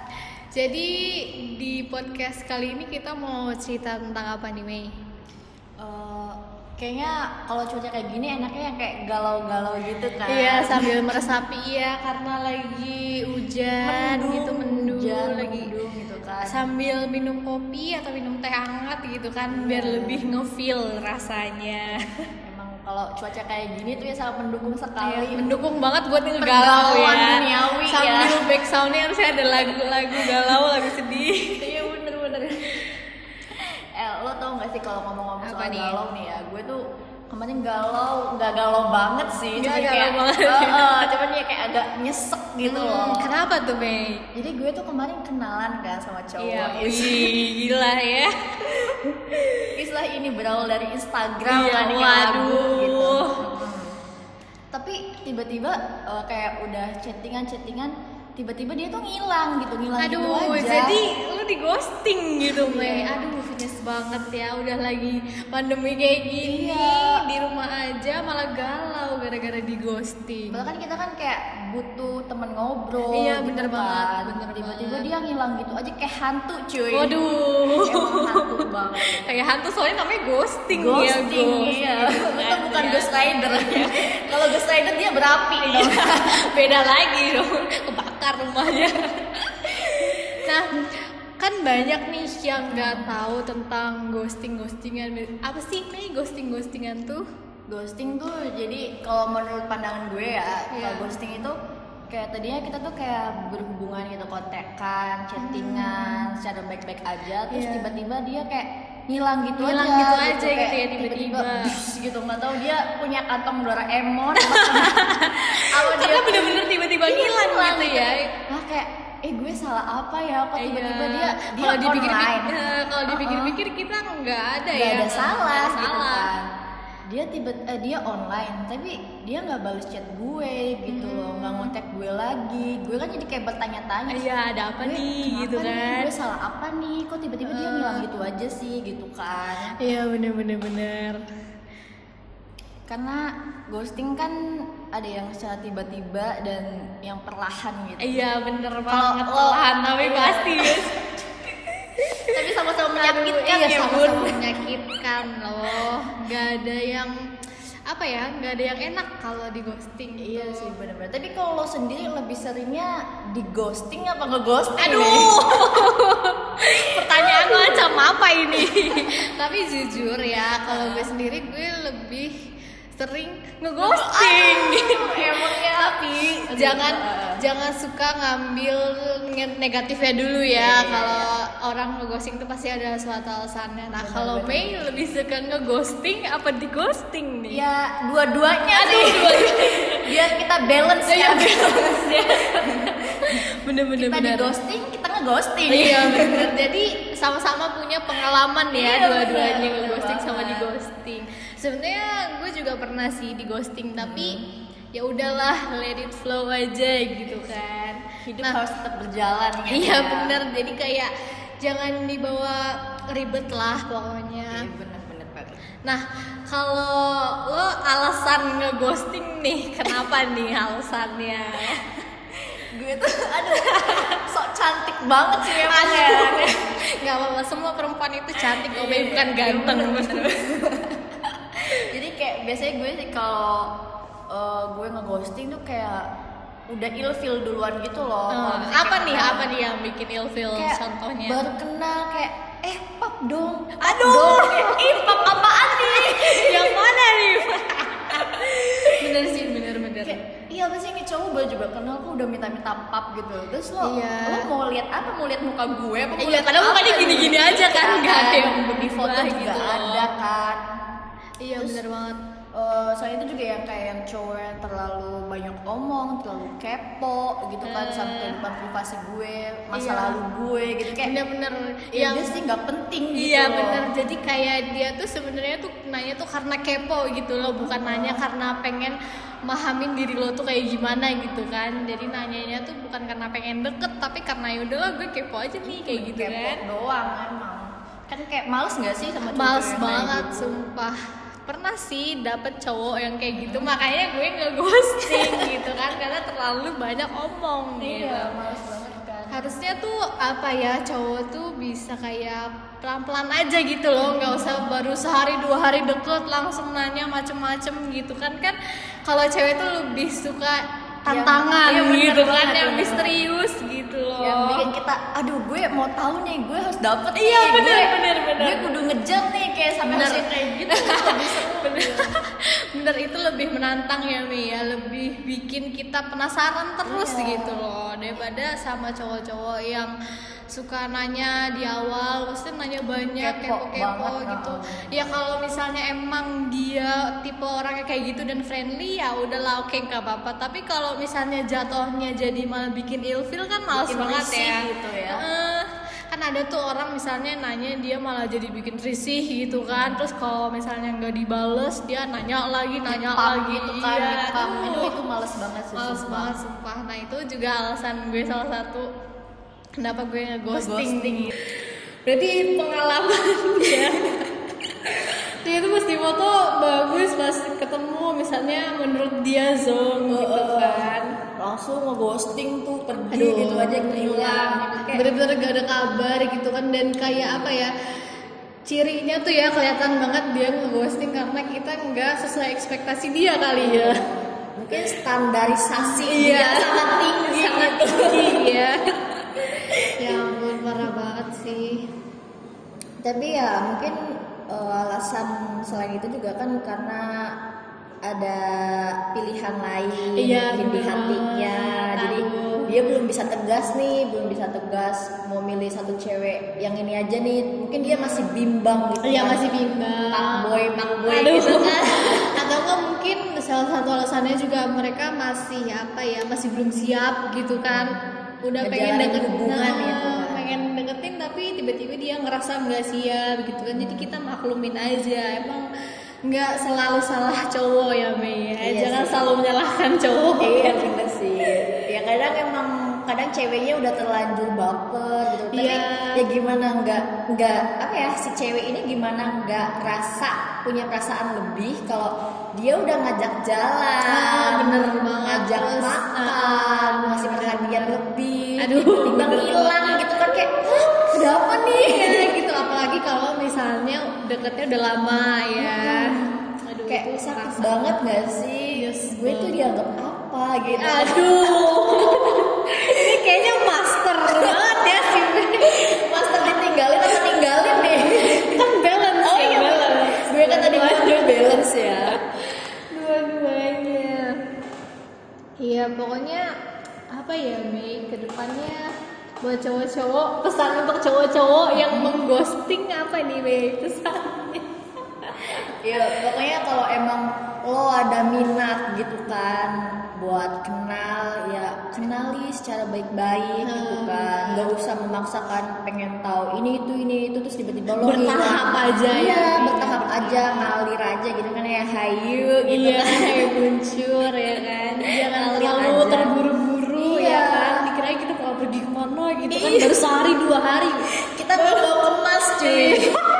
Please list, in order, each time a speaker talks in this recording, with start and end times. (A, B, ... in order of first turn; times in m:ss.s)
0:00.5-0:04.9 A
0:05.8-0:10.9 B
0:10.3-0:15.7 A
0:13.8-0:16.6 B
0:16.4-0:22.0 A
0:19.5-0:20.3 B
0:22.4-0:25.4 B
0:25.0-0:31.9 A
0:26.4-0:28.4 B
0:30.2-0:32.8 B
0:33.5-0:43.3 B
0:35.4-0:36.0 A
0:39.6-0:41.1 A
0:42.6-0:44.2 A
0:44.3-0:47.4 B
0:46.4-0:49.7 A
0:49.8-0:53.9 B
0:51.5-0:53.4 A
0:54.7-1:01.0 B
1:00.0-1:10.6 A
1:02.5-1:03.2 B
1:06.4-1:07.2 B
1:10.5-1:17.2 B
1:13.1-1:15.1 A
1:16.9-1:18.7 A
1:17.7-1:19.3 B
1:19.2-1:23.9 A
1:20.7-1:26.3 B
1:25.6-1:29.0 A
1:29.5-1:30.8 A
1:31.4-1:37.2 A
1:32.7-1:33.1 B
1:37.7-1:41.6 B
1:40.7-1:41.1 A
1:42.1-2:03.6 B
1:45.4-1:46.2 A
1:47.5-1:47.9 A
1:49.6-1:51.8 A
1:54.4-1:58.3 A
2:00.6-2:06.3 A
2:04.7-2:06.4 B
2:07.1-2:14.2 B
2:10.9-2:11.7 A
2:14.1-2:16.1 A
2:14.8-2:19.7 B
2:17.4-2:18.0 A
2:19.8-2:21.2 A
2:22.9-2:28.2 B
2:28.0-2:31.0 A
2:28.9-2:30.9 B
2:32.3-2:34.4 B
2:33.0-2:37.1 A
2:37.9-2:40.7 A
2:40.2-2:45.9 B
2:44.8-2:52.3 A
2:46.8-2:47.9 B
2:50.7-2:51.1 B
2:53.0-3:07.6 A
2:53.8-2:57.4 B
3:00.5-3:01.3 B
3:03.9-3:04.8 B
3:07.5-3:13.4 B
3:08.7-3:10.0 A
3:11.1-3:14.5 A
3:14.0-3:16.5 B
3:15.7-3:24.4 A
3:18.7-3:20.7 B
3:24.0-3:24.5 B
3:24.9-3:28.6 A
3:28.2-3:30.4 B
3:29.7-3:34.7 A
3:34.5-3:35.6 B
3:35.8-3:41.9 A
3:42.6-3:46.6 B
3:43.5-3:44.2 A
3:45.6-3:50.3 A
3:48.7-3:51.0 B
3:51.9-3:53.7 B
3:54.3-3:56.1 B
3:56.7-3:59.5 B
3:58.3-4:01.4 A
4:00.5-4:06.8 B
4:03.8-4:10.2 A
4:08.2-4:09.2 B
4:10.0-4:20.6 B
4:13.8-4:14.5 A
4:16.2-4:20.1 A
4:21.4-4:22.2 A
4:22.5-4:31.1 B
4:27.6-4:28.4 A
4:29.7-4:30.2 A
4:31.0-4:32.3 A
4:31.9-4:33.9 B
4:33.1-4:46.6 A
4:37.5-4:38.2 B
4:45.6-4:50.6 B
4:49.3-4:58.3 A
4:53.3-4:53.7 B
4:55.1-4:55.6 B
4:57.8-4:59.4 B
4:59.3-5:14.6 A
5:04.0-5:04.7 B
5:11.1-5:13.1 B
5:14.2-5:22.1 B
5:17.2-5:18.6 A
5:19.9-5:29.9 A
5:26.8-5:27.6 B
5:30.5-5:55.0 A
5:33.2-5:35.2 B
5:43.7-5:45.2 B
5:49.7-5:50.0 B
5:52.9-5:56.3 B
5:55.8-5:58.9 A
5:59.8-6:01.5 A
6:00.5-6:01.3 B
6:02.0-6:04.2 A
6:04.8-6:11.2 A
6:10.1-6:15.0 B
6:13.1-6:17.7 A
6:18.6-6:24.0 A
6:23.6-6:28.4 B
6:25.8-6:28.8 A
6:29.7-6:30.2 B
6:30.0-6:31.9 A
6:33.0-6:37.3 B
6:38.0-6:49.4 B
6:40.2-6:42.7 A
6:47.8-6:48.3 A
6:49.0-6:50.4 A
6:50.1-6:52.4 B
6:51.1-7:05.6 A
6:58.6-7:00.4 B
7:03.7-7:04.0 B
7:06.2-7:10.9 A
7:08.6-7:09.2 B
7:10.4-7:32.3 B
7:15.5-7:16.2 A
7:24.0-7:28.0 A
7:28.6-7:30.1 A
7:31.0-7:37.9 A
7:35.6-7:36.3 B
7:36.9-7:42.3 B
7:38.8-7:39.6 A
7:40.8-7:46.5 A
7:44.2-7:44.8 B
7:45.6-7:48.6 B
7:47.7-7:54.3 A
7:49.2-7:52.2 B
7:55.6-7:56.4 A
7:57.1-7:58.9 A
7:59.4-8:04.7 A
8:01.7-8:02.2 B
8:05.2-8:05.6 A
8:05.8-8:23.5 B
8:13.6-8:14.7 A
8:18.0-8:20.7 A
8:22.7-8:31.0 A
8:25.2-8:26.4 B
8:27.0-8:27.8 B
8:29.5-8:30.0 B
8:31.3-8:33.2 B
8:31.6-8:31.9 A
8:32.6-8:33.1 A